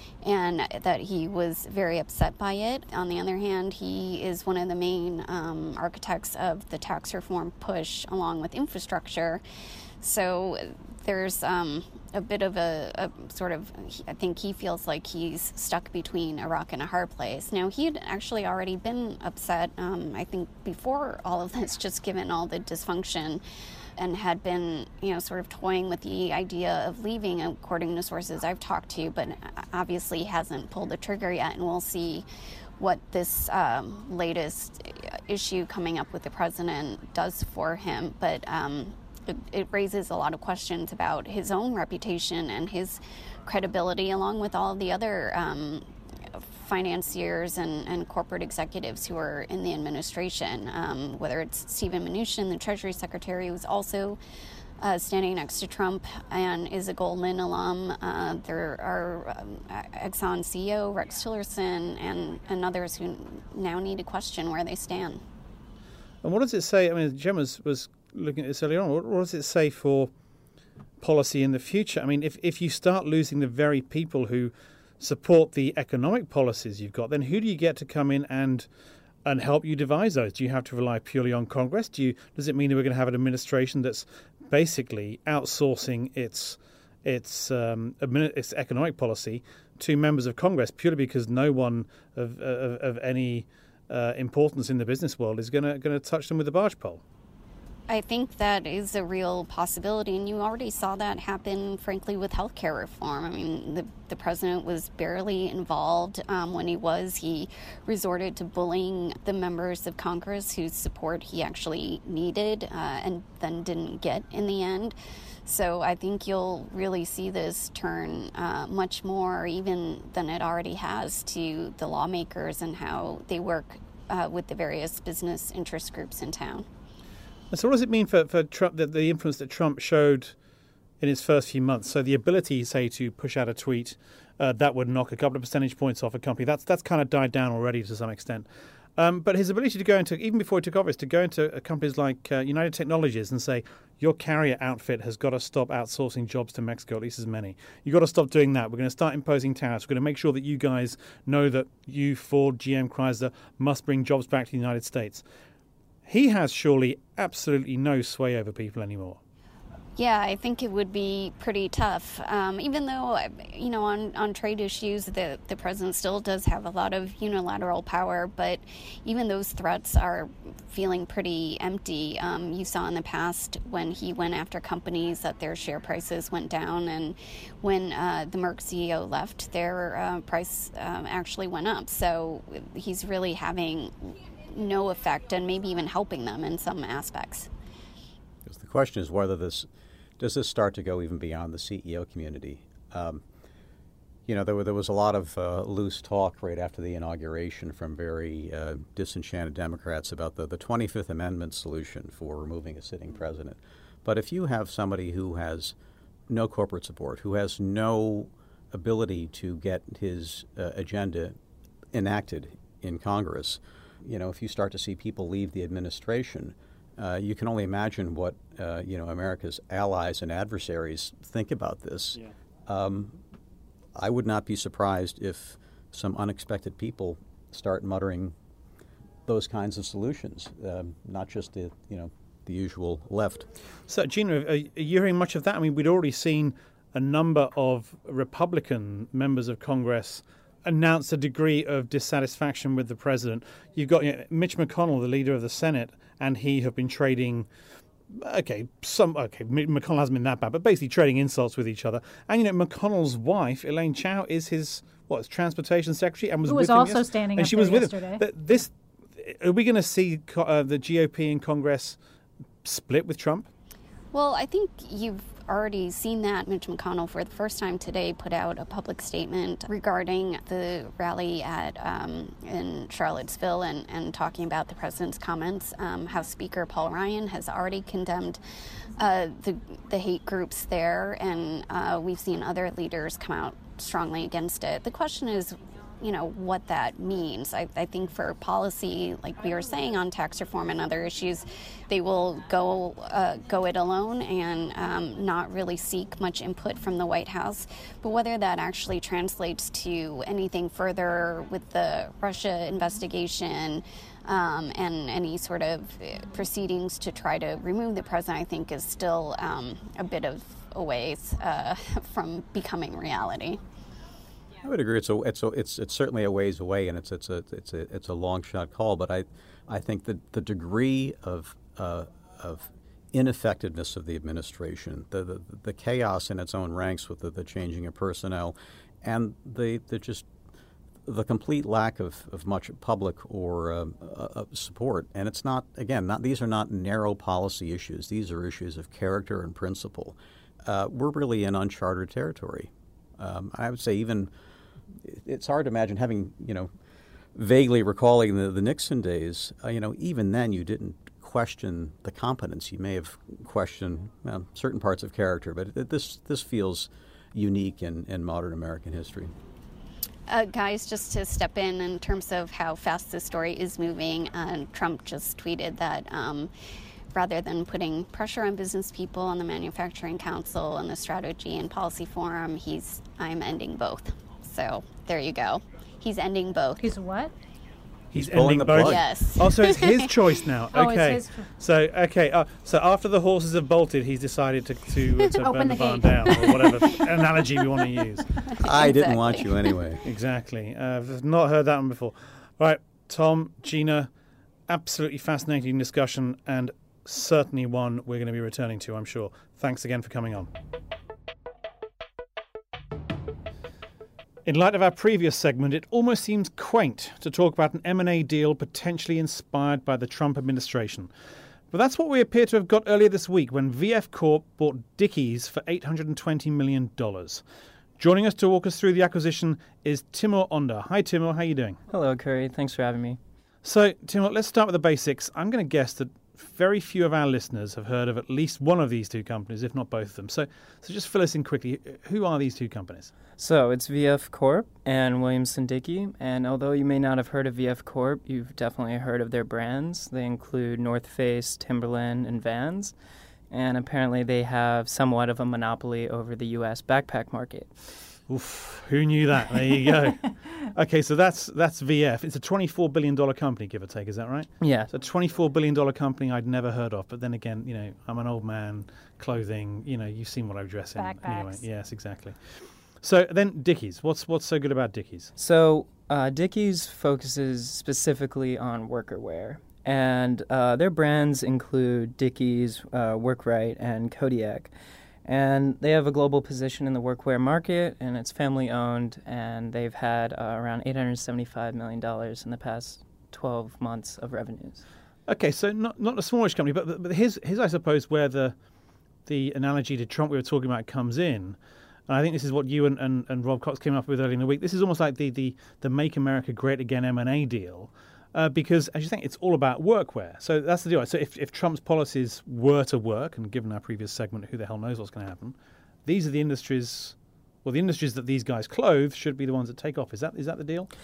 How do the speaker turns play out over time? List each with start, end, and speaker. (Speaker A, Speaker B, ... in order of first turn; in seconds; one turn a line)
Speaker A: 0.2-9.4
Speaker A: 10.0-23.4
Speaker A: 24.0-32.2
Speaker A: 32.8-45.8
Speaker A: 46.5-54.2
Speaker A: 54.8-65.2
Speaker B: 66.2-70.1
Speaker B: 71.0-78.7
Speaker B: 79.2-97.0
Speaker A: 97.9-114.9
Speaker A: 115.5-126.7
Speaker B: 127.5-130.3
Speaker B: 131.0-155.2
Speaker B: 156.1-159.2
Speaker A: 160.0-187.5
Speaker C: 188.4-189.7
Speaker C: 190.2-193.2
Speaker C: 194.3-205.7
Speaker C: 206.3-211.3
Speaker C: 211.9-223.2
Speaker C: 223.9-228.3
Speaker C: 229.2-233.4
Speaker B: 233.9-247.5
Speaker B: 248.1-262.0
Speaker D: 256.4-258.2
Speaker B: 262.6-263.5
Speaker A: 264.1-278.4
Speaker A: 279.0-313.6
Speaker C: 314.6-330.2
Speaker C: 331.1-344.3
Speaker C: 345.0-346.7
Speaker C: 347.3-359.3
Speaker A: 360.3-366.5
Speaker A: 367.1-376.9
Speaker D: 376.8-377.3
Speaker C: 378.1-379.0
Speaker B: 378.1-388.4
Speaker A: 378.8-380.1
Speaker D: 380.7-381.5
Speaker D: 385.3-387.0
Speaker A: 388.5-389.8
Speaker C: 388.6-390.0
Speaker B: 390.0-394.1
Speaker B: 394.7-400.5
Speaker B: 404.4-411.1
Speaker B: 411.7-417.4
Speaker B: 418.0-421.8
Speaker E: 421.9-423.2
Speaker B: 423.6-433.1
Speaker E: 433.4-442.9
Speaker E: 443.5-447.7
Speaker B: 448.3-462.5
Speaker E: 454.6-454.9
Speaker D: 460.9-461.6
Speaker B: 463.0-465.3
Speaker E: 465.4-474.7
Speaker E: 475.2-484.8
Speaker B: 485.3-488.5
Speaker B: 489.2-491.6
Speaker B: 492.1-510.9